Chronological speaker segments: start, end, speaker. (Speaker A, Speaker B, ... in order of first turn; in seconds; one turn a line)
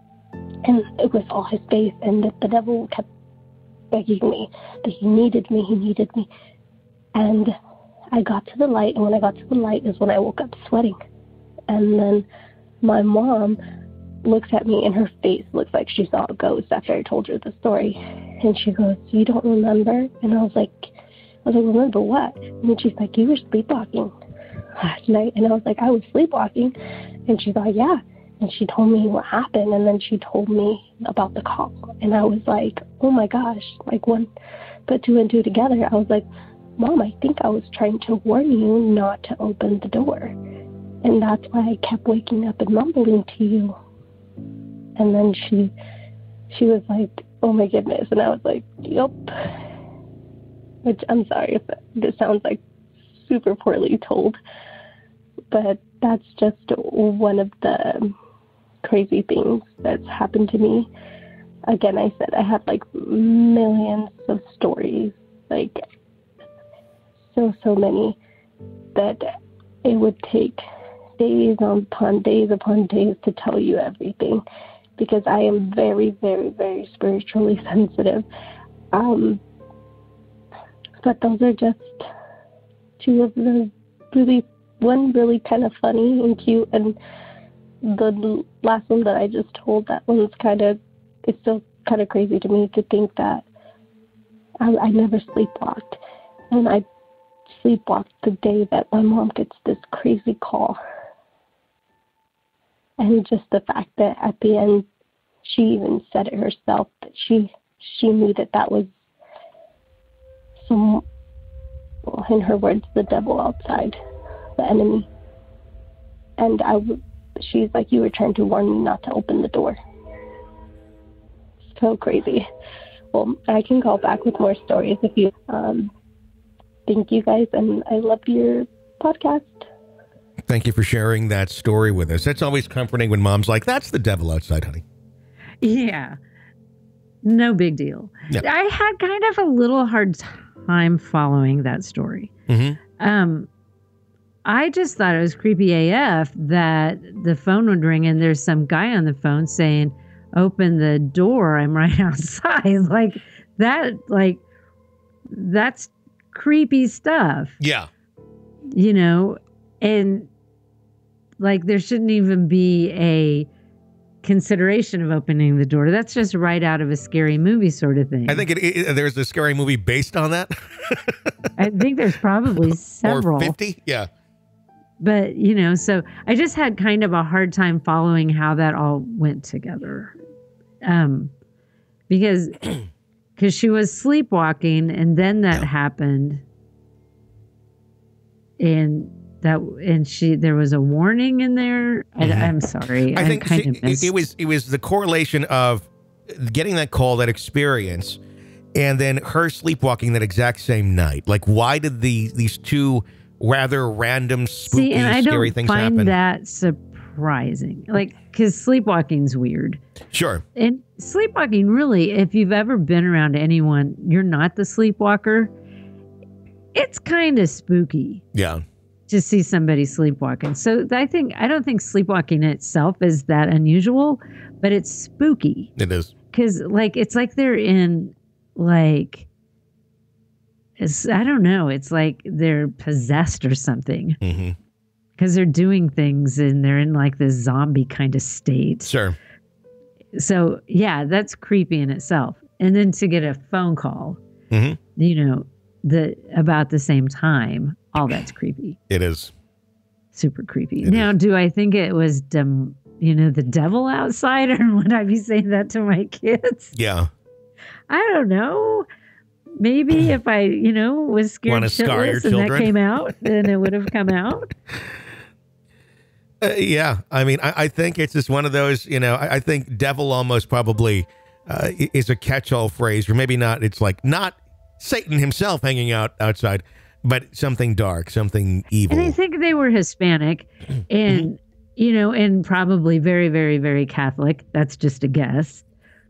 Speaker A: 0.6-3.1
Speaker A: 3.9-6.3
Speaker A: 7.2-7.5
Speaker A: 8.1-10.9
Speaker A: 11.7-12.2
Speaker A: 12.8-13.6
Speaker A: 14.2-20.9
Speaker A: 21.4-24.1
Speaker A: 24.8-26.7
Speaker A: 27.3-34.3
Speaker A: 34.9-36.2
Speaker A: 36.8-40.3
Speaker A: 41.0-43.8
Speaker A: 45.0-45.7
Speaker A: 46.5-49.3
Speaker A: 50.8-52.6
Speaker A: 53.2-54.4
Speaker A: 55.5-58.1
Speaker A: 58.8-60.9
Speaker A: 61.7-65.8
Speaker A: 67.3-68.2
Speaker A: 68.9-69.3
Speaker A: 69.8-70.6
Speaker A: 71.2-74.4
Speaker A: 75.0-78.2
Speaker A: 78.9-79.4
Speaker A: 81.0-82.0
Speaker A: 83.0-87.0
Speaker A: 87.8-93.4
Speaker A: 94.6-96.0
Speaker A: 96.5-96.8
Speaker A: 97.5-100.8
Speaker A: 103.0-104.8
Speaker A: 105.4-108.9
Speaker A: 110.6-111.0
Speaker A: 112.0-114.0
Speaker A: 114.6-115.1
Speaker A: 116.4-119.8
Speaker A: 121.8-122.5
Speaker A: 123.1-125.9
Speaker A: 126.9-129.7
Speaker B: 130.5-134.8
Speaker C: 135.6-136.2
Speaker C: 137.2-142.3
Speaker B: 142.5-142.8
Speaker C: 143.0-143.5
Speaker C: 144.4-154.4
Speaker C: 155.3-157.6
Speaker B: 157.6-157.9
Speaker C: 158.7-160.3
Speaker C: 161.4-163.5
Speaker C: 164.2-168.4
Speaker B: 168.3-171.3
Speaker C: 171.6-173.5
Speaker B: 172.6-174.1
Speaker C: 175.0-180.1
Speaker C: 180.8-181.3
Speaker C: 182.1-182.6
Speaker C: 183.3-186.4
Speaker C: 188.6-194.1
Speaker B: 192.2-192.5
Speaker B: 193.1-198.2
Speaker B: 198.7-206.1
Speaker C: 204.7-209.8
Speaker B: 210.1-210.4
Speaker C: 210.6-215.5
Speaker C: 216.7-218.2
Speaker B: 218.3-218.6
Speaker C: 219.1-225.7
Speaker B: 225.8-226.1
Speaker C: 226.3-229.3
Speaker C: 230.8-234.2
Speaker B: 234.2-234.6
Speaker C: 235.2-238.9
Speaker B: 238.8-239.2
Speaker C: 240.2-244.2
Speaker B: 244.5-244.8
Speaker C: 245.0-248.8
Speaker B: 248.9-249.3
Speaker C: 250.1-256.7
Speaker B: 250.8-251.1
Speaker B: 256.7-257.1
Speaker C: 257.9-258.9
Speaker C: 259.6-264.5
Speaker B: 261.5-262.7
Speaker B: 266.4-279.1
Speaker C: 278.9-285.6